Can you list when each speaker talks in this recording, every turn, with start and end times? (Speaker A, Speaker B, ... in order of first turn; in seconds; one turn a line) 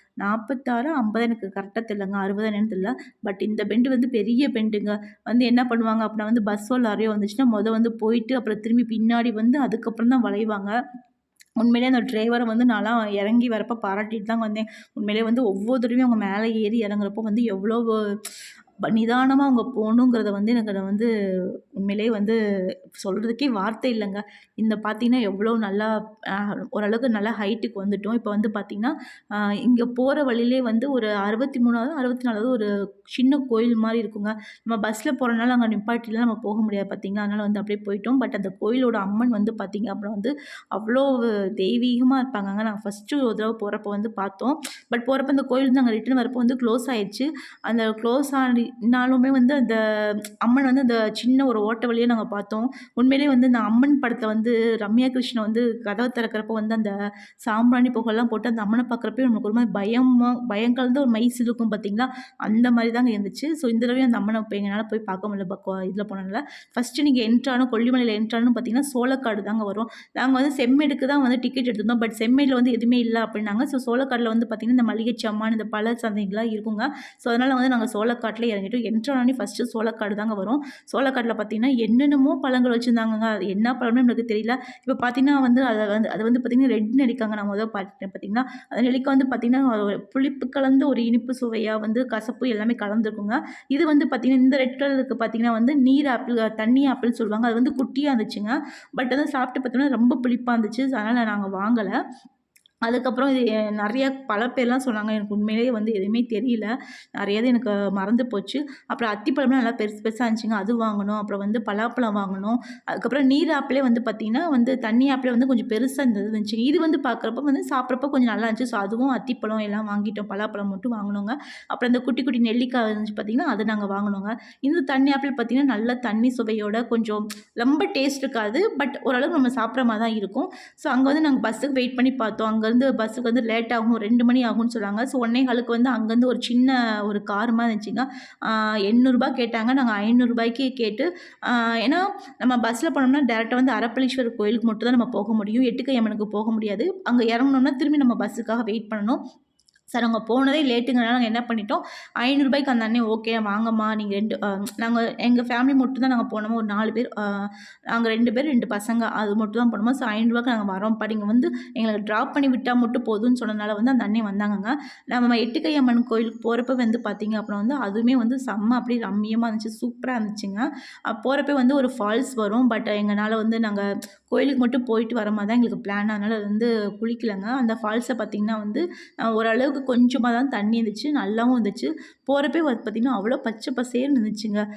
Speaker A: 0.2-10.7
Speaker A: 11.6-18.2
Speaker A: 18.8-22.4
Speaker A: 23.0-49.8
Speaker A: 50.4-56.9
Speaker A: 57.5-102.0
Speaker A: 102.9-149.2
Speaker A: 149.9-184.6